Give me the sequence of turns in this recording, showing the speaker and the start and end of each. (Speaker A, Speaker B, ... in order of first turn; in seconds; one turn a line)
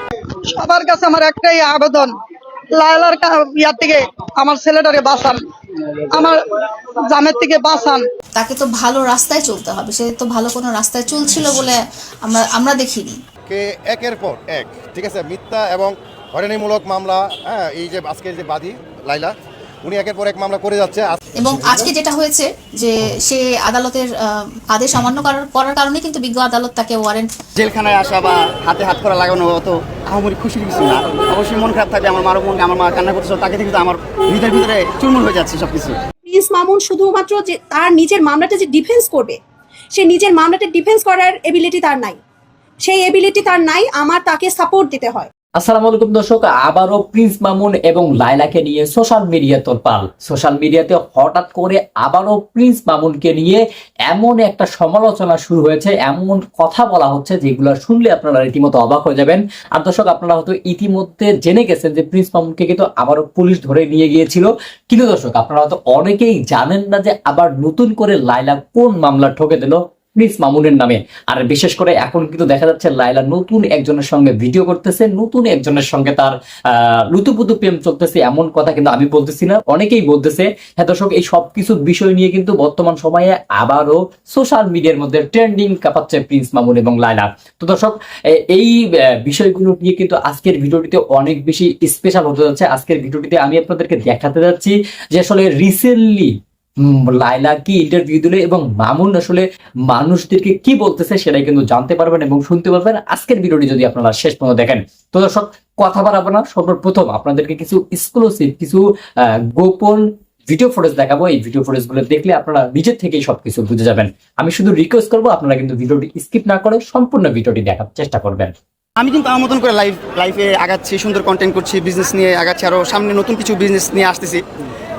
Speaker A: 0.5-2.1
Speaker A: 2.8-5.4
Speaker A: 6.1-6.4
Speaker A: 7.1-8.0
Speaker B: 8.4-13.2
Speaker C: 13.5-19.3
Speaker C: 19.8-21.2
Speaker B: 21.4-27.3
Speaker D: 27.6-36.0
Speaker E: 36.2-39.4
Speaker E: 39.9-42.2
Speaker E: 42.8-45.3
Speaker F: 45.6-88.0
Speaker F: 89.2-96.3
Speaker F: 96.8-108.8
Speaker F: 109.5-118.5
Speaker D: 119.0-124.4